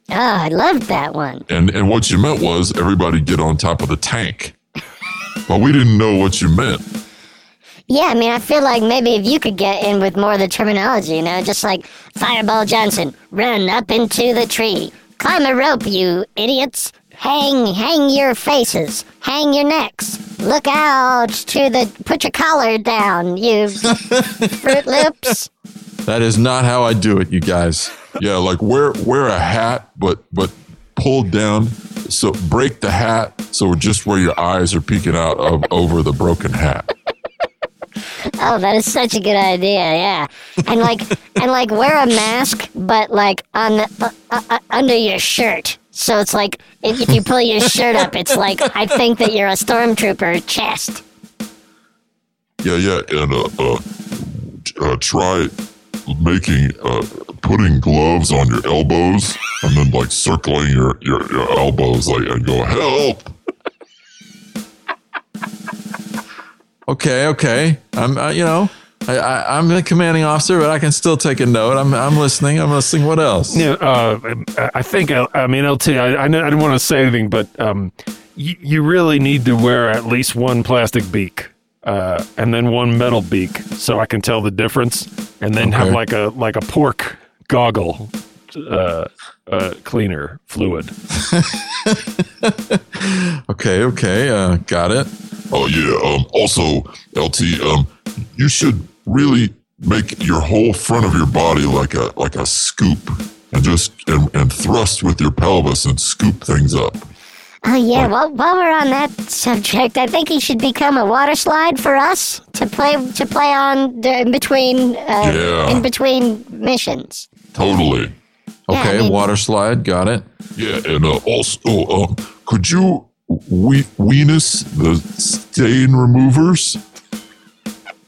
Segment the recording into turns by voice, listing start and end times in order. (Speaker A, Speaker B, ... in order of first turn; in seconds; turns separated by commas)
Speaker A: 0.1-1.4, Speaker B: 1.5-4.5, Speaker B: 5.5-6.8, Speaker A: 7.9-24.0, Speaker C: 23.9-25.3, Speaker A: 24.6-25.5, Speaker C: 26.1-28.1, Speaker B: 28.1-36.9, Speaker A: 38.4-51.0, Speaker C: 48.3-49.0, Speaker B: 52.6-55.5, Speaker B: 56.0-63.3, Speaker C: 66.9-73.7, Speaker D: 73.5-90.9, Speaker C: 85.6-86.0, Speaker C: 91.2-95.1, Speaker B: 95.5-107.0, Speaker A: 107.6-117.3, Speaker B: 115.2-115.8, Speaker B: 117.5-118.1, Speaker C: 118.7-120.2, Speaker A: 118.7-119.3, Speaker B: 120.5-126.8